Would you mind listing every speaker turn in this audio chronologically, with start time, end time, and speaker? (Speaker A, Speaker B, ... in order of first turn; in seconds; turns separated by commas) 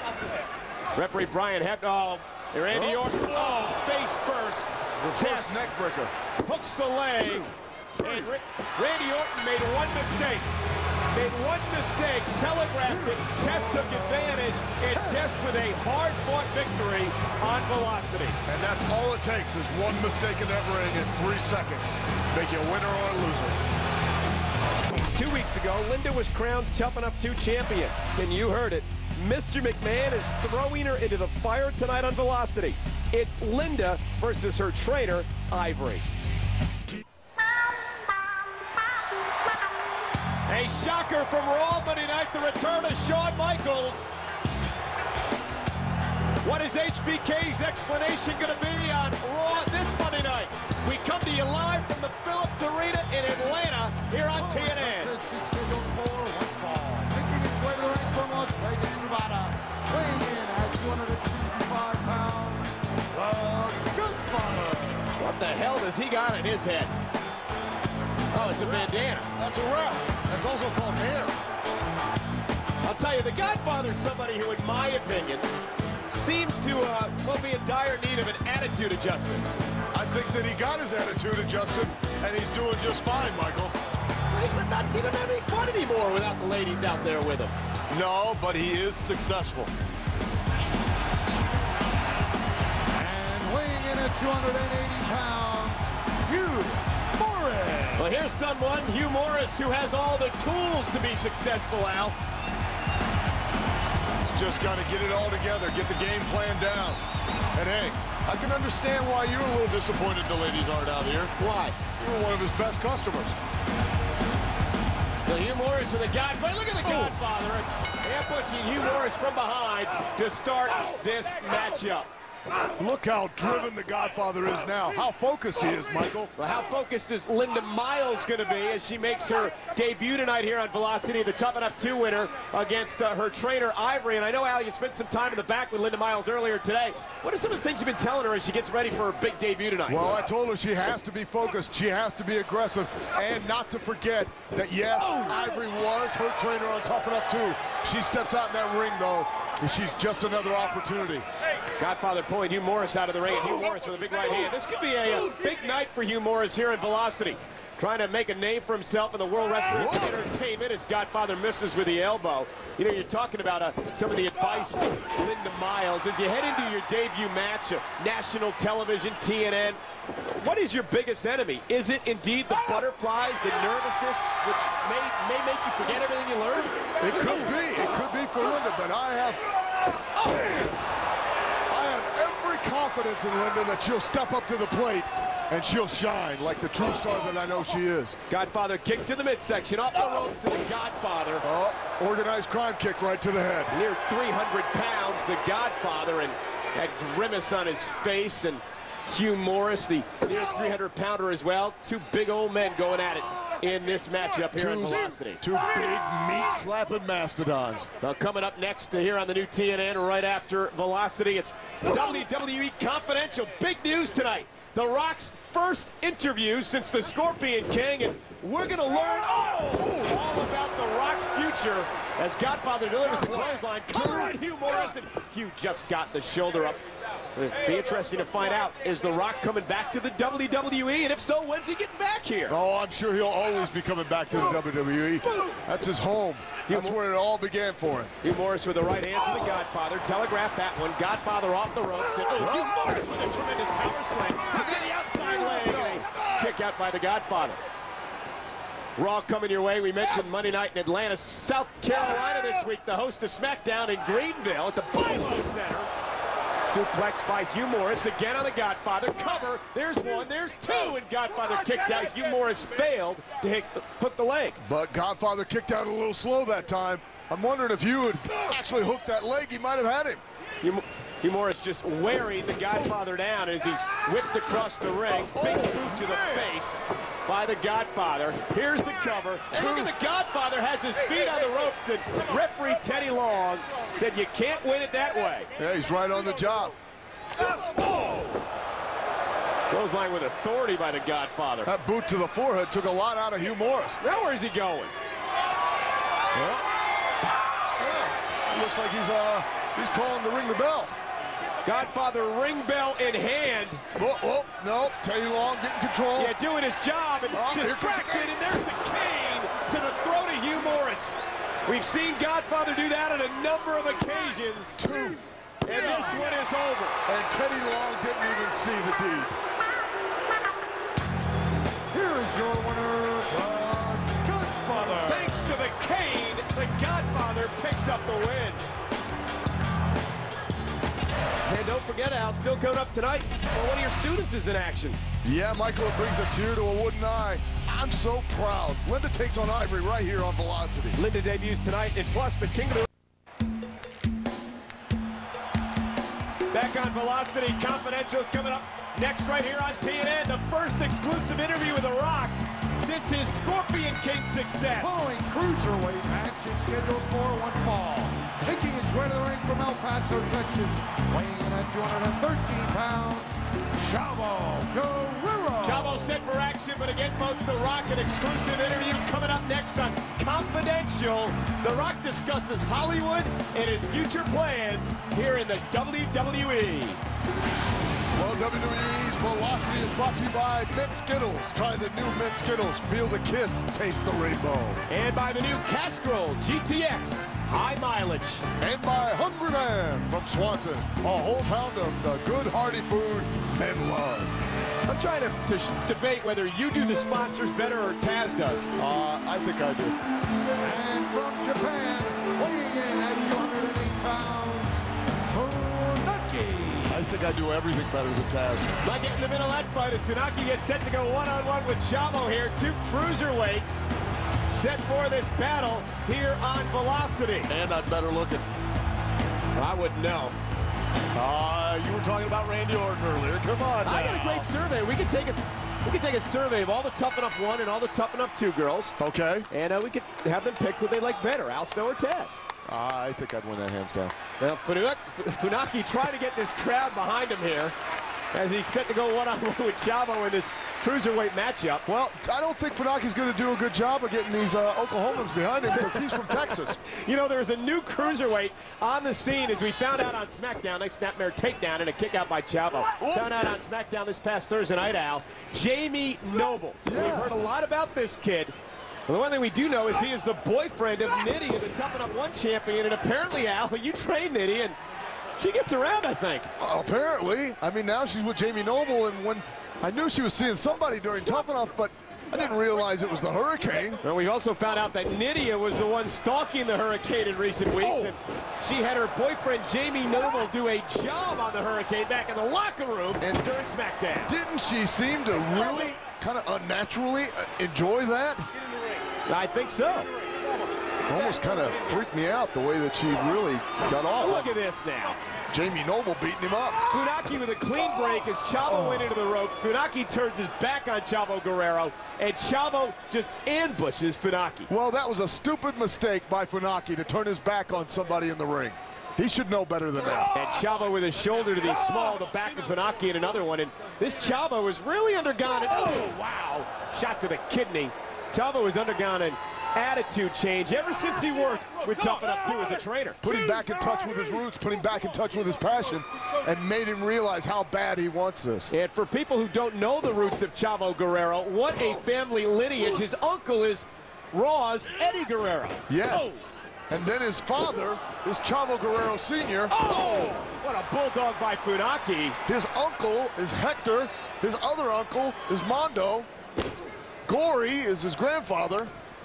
Speaker A: 0.9-5.7, Speaker B: 2.7-3.6, Speaker B: 5.0-6.1, Speaker A: 6.4-10.5, Speaker B: 7.2-8.3, Speaker A: 11.1-18.4, Speaker C: 13.0-14.5, Speaker B: 18.4-23.6, Speaker A: 25.1-36.0, Speaker A: 40.5-44.1, Speaker A: 46.4-55.1, Speaker C: 54.3-62.7, Speaker B: 63.1-65.2, Speaker A: 65.2-66.9, Speaker A: 68.3-69.3, Speaker B: 68.4-71.4, Speaker A: 72.8-75.5, Speaker A: 76.1-79.5, Speaker B: 79.9-83.7, Speaker A: 84.3-87.5, Speaker B: 87.9-89.7, Speaker C: 92.9-98.0, Speaker A: 98.0-102.2, Speaker B: 104.2-107.0, Speaker B: 107.5-111.3, Speaker A: 111.4-111.8, Speaker B: 111.9-113.4, Speaker A: 115.2-122.1, Speaker B: 116.8-117.2, Speaker B: 122.6-126.3, Speaker A: 126.4-140.3, Speaker B: 139.9-151.3, Speaker A: 145.0-145.3, Speaker A: 151.8-177.6, Speaker B: 159.7-160.2, Speaker B: 177.0-179.4, Speaker A: 180.2-180.7, Speaker B: 181.7-188.2, Speaker A: 188.3-191.4, Speaker B: 191.4-193.7, Speaker A: 193.7-205.4, Speaker B: 204.5-207.9, Speaker A: 208.0-226.8, Speaker B: 223.0-224.9, Speaker A: 227.3-232.6, Speaker B: 232.5-238.1, Speaker A: 236.7-237.0, Speaker A: 238.2-247.6, Speaker B: 242.4-242.7, Speaker B: 244.5-246.3, Speaker A: 249.0-255.9, Speaker A: 256.6-264.6, Speaker B: 264.6-270.2, Speaker A: 270.6-285.5, Speaker B: 275.2-276.5, Speaker B: 279.5-279.9, Speaker B: 285.6-286.7, Speaker A: 287.6-288.2, Speaker A: 289.7-291.7, Speaker B: 291.6-294.0, Speaker A: 294.0-294.9, Speaker B: 296.3-296.6, Speaker B: 297.8-300.9, Speaker A: 301.6-303.8, Speaker B: 303.9-306.3, Speaker A: 306.1-314.8, Speaker B: 307.3-308.4, Speaker B: 314.8-316.3, Speaker A: 315.6-317.0, Speaker B: 317.1-319.3, Speaker C: 321.9-325.5, Speaker A: 324.7-328.6, Speaker A: 331.4-335.0, Speaker B: 335.2-341.0, Speaker A: 340.9-342.9, Speaker A: 346.5-355.1, Speaker C: 354.8-366.2, Speaker A: 365.6-377.0, Speaker B: 378.1-384.8, Speaker A: 384.9-388.4, Speaker B: 388.6-394.3, Speaker A: 394.9-398.7, Speaker B: 398.8-400.0, Speaker C: 400.6-407.1, Speaker B: 406.9-408.7, Speaker A: 408.8-413.8, Speaker A: 414.5-417.5, Speaker B: 417.5-418.4, Speaker A: 419.5-420.4, Speaker B: 421.1-424.5, Speaker A: 423.8-429.0, Speaker B: 429.0-429.5, Speaker A: 429.5-432.4, Speaker B: 432.6-434.1, Speaker A: 434.4-437.7, Speaker A: 438.3-441.8, Speaker B: 441.9-446.8, Speaker A: 445.9-458.5, Speaker B: 453.0-453.3, Speaker B: 456.8-457.4, Speaker A: 459.1-464.8, Speaker A: 465.4-466.5, Speaker B: 466.6-474.0, Speaker A: 474.0-484.4, Speaker B: 477.8-478.1, Speaker B: 483.2-483.5, Speaker B: 484.3-488.5, Speaker A: 489.3-490.1, Speaker B: 491.1-494.6, Speaker A: 494.2-495.2, Speaker B: 495.5-496.9, Speaker A: 496.9-504.7, Speaker B: 498.6-499.1, Speaker B: 504.7-510.3, Speaker A: 510.3-523.2, Speaker B: 523.2-528.7, Speaker A: 528.7-536.4, Speaker B: 535.9-536.3, Speaker B: 536.9-540.3, Speaker A: 539.7-542.4, Speaker B: 542.5-546.3, Speaker B: 547.2-548.9